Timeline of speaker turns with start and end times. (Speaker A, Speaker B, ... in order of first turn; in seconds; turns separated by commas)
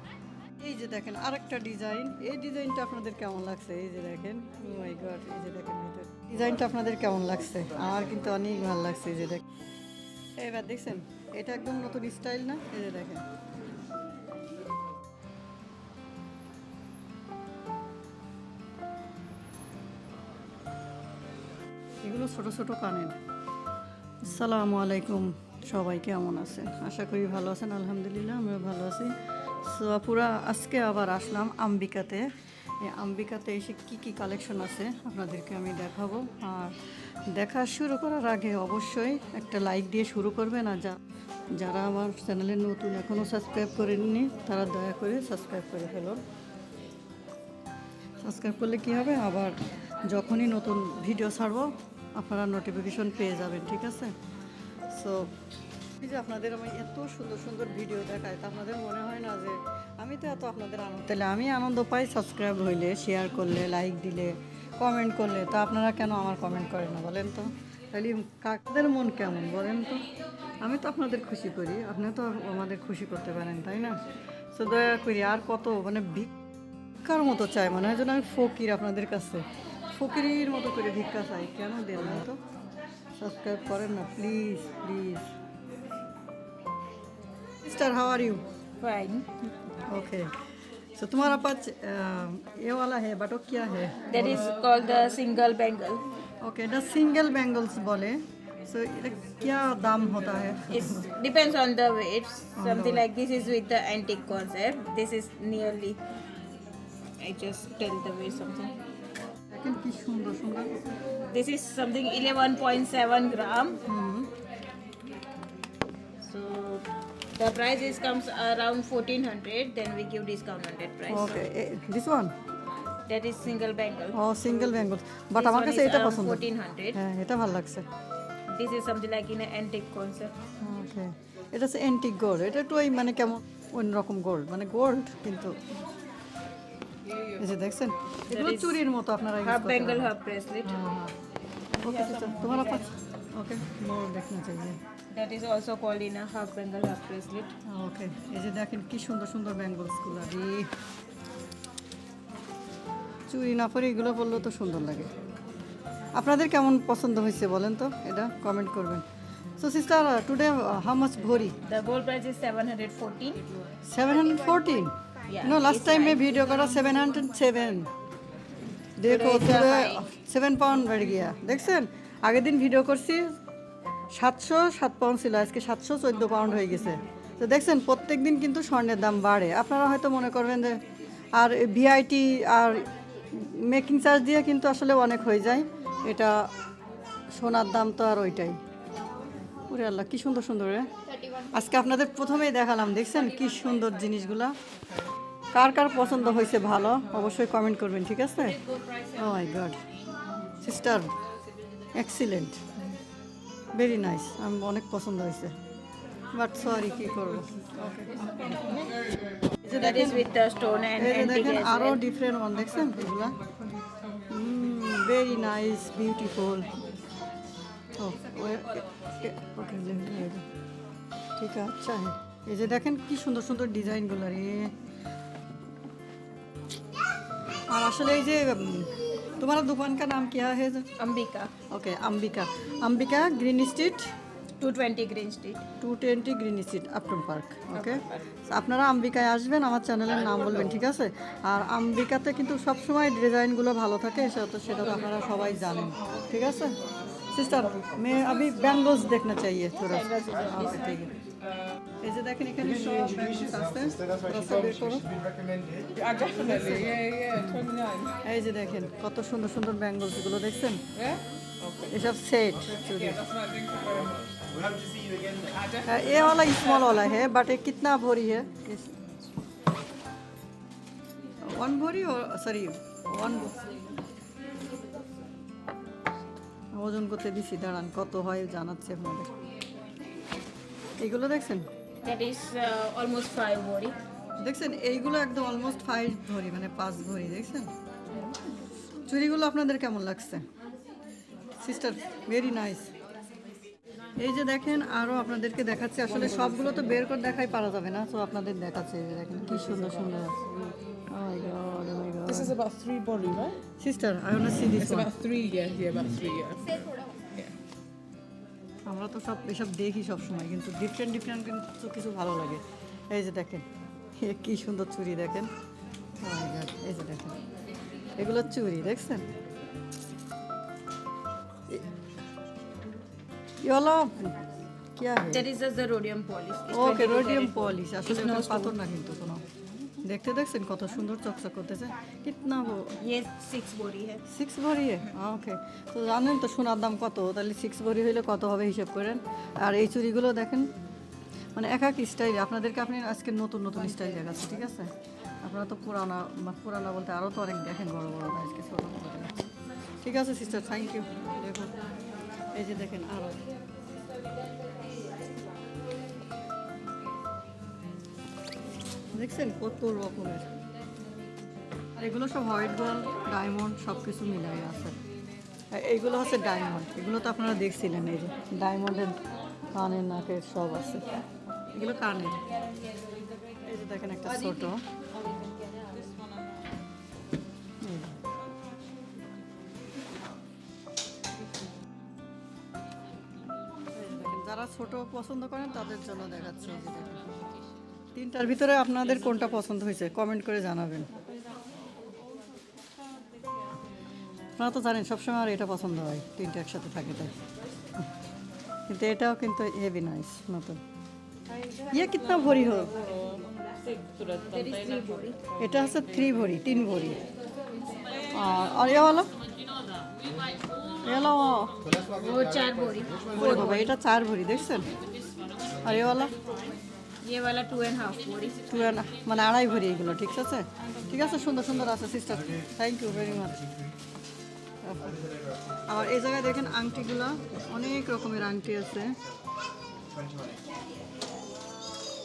Speaker A: 0.6-9.4, Speaker A: 10.4-13.2, Speaker A: 22.0-23.1, Speaker A: 24.2-32.2, Speaker A: 32.8-36.8, Speaker A: 37.3-41.0, Speaker A: 41.6-46.2, Speaker A: 48.2-49.5, Speaker A: 50.0-54.1, Speaker A: 54.9-55.3, Speaker A: 56.0-70.0, Speaker A: 70.6-74.0, Speaker A: 74.5-76.3, Speaker A: 77.0-82.4, Speaker A: 83.2-85.3, Speaker A: 87.6-88.4, Speaker B: 88.8-89.3, Speaker A: 89.9-90.4, Speaker A: 91.0-94.5, Speaker B: 94.1-96.0, Speaker A: 96.4-101.1, Speaker B: 100.7-106.0, Speaker A: 102.6-103.0, Speaker B: 107.2-108.7, Speaker A: 109.5-110.7, Speaker B: 111.3-113.8, Speaker A: 113.9-114.3, Speaker B: 116.2-121.5, Speaker A: 121.1-122.3, Speaker B: 123.1-124.2, Speaker A: 124.1-127.9, Speaker B: 125.4-127.0, Speaker B: 128.5-130.4, Speaker A: 130.6-135.7, Speaker A: 137.4-140.1, Speaker B: 138.3-138.8, Speaker B: 139.4-140.9, Speaker A: 140.7-141.1, Speaker B: 141.8-142.9, Speaker A: 141.8-144.8, Speaker B: 145.1-147.5, Speaker A: 147.7-150.7, Speaker A: 153.3-155.1, Speaker A: 156.2-159.1, Speaker A: 159.6-161.6, Speaker B: 161.7-163.7, Speaker A: 163.8-167.9, Speaker B: 165.3-166.6, Speaker A: 169.0-173.3, Speaker B: 169.1-170.1, Speaker A: 174.1-180.8, Speaker A: 181.4-186.4, Speaker A: 187.4-188.6, Speaker A: 189.7-190.9, Speaker A: 191.5-194.6, Speaker A: 195.5-198.6, Speaker A: 199.1-199.8, Speaker A: 200.6-201.1, Speaker A: 201.9-202.6, Speaker A: 203.7-205.6, Speaker A: 206.3-208.2, Speaker B: 208.5-208.9, Speaker A: 209.6-210.3, Speaker B: 209.7-212.0, Speaker A: 211.0-213.4, Speaker A: 214.3-216.7, Speaker A: 218.0-220.4, Speaker A: 221.4-224.7, Speaker A: 227.7-230.9, Speaker B: 231.0-231.5, Speaker A: 231.7-234.1, Speaker B: 234.6-235.6, Speaker A: 235.8-246.8, Speaker B: 237.7-238.2, Speaker A: 247.3-251.1, Speaker B: 249.8-250.9, Speaker A: 252.0-255.1, Speaker A: 256.0-257.7, Speaker C: 256.1-258.1, Speaker A: 258.2-260.8, Speaker A: 261.9-263.3, Speaker C: 263.6-264.1, Speaker A: 265.9-268.9, Speaker A: 271.4-273.6, Speaker A: 276.7-279.3, Speaker A: 281.0-281.7, Speaker B: 282.0-283.9, Speaker A: 284.4-287.7, Speaker A: 289.1-290.4, Speaker A: 291.6-292.9, Speaker A: 294.2-300.4, Speaker A: 301.1-302.6, Speaker C: 302.5-303.6, Speaker A: 303.8-305.2, Speaker C: 305.1-306.8, Speaker A: 308.9-313.6, Speaker A: 314.2-315.5, Speaker A: 316.2-317.4, Speaker A: 318.2-319.2, Speaker A: 323.6-324.4, Speaker A: 324.9-325.4, Speaker B: 325.3-328.8, Speaker A: 326.7-329.4, Speaker A: 330.0-333.0, Speaker B: 333.0-334.2, Speaker A: 334.3-340.7, Speaker A: 341.6-344.9, Speaker A: 345.4-349.4, Speaker A: 350.0-351.7, Speaker A: 352.5-353.4, Speaker A: 359.1-360.5, Speaker A: 362.0-365.0, Speaker A: 365.7-369.1, Speaker A: 369.7-371.1, Speaker A: 371.7-372.4, Speaker A: 373.6-374.8, Speaker A: 377.8-378.2, Speaker A: 383.9-387.3, Speaker A: 388.1-391.1, Speaker A: 394.6-397.3, Speaker A: 398.9-400.8, Speaker A: 401.9-402.9, Speaker B: 404.4-405.4, Speaker A: 405.6-407.2, Speaker A: 408.3-409.3, Speaker A: 411.0-411.8, Speaker B: 412.1-413.9, Speaker A: 413.3-414.9, Speaker A: 415.8-416.3, Speaker B: 417.2-418.7, Speaker A: 418.7-423.7, Speaker A: 424.8-425.1, Speaker A: 425.9-429.2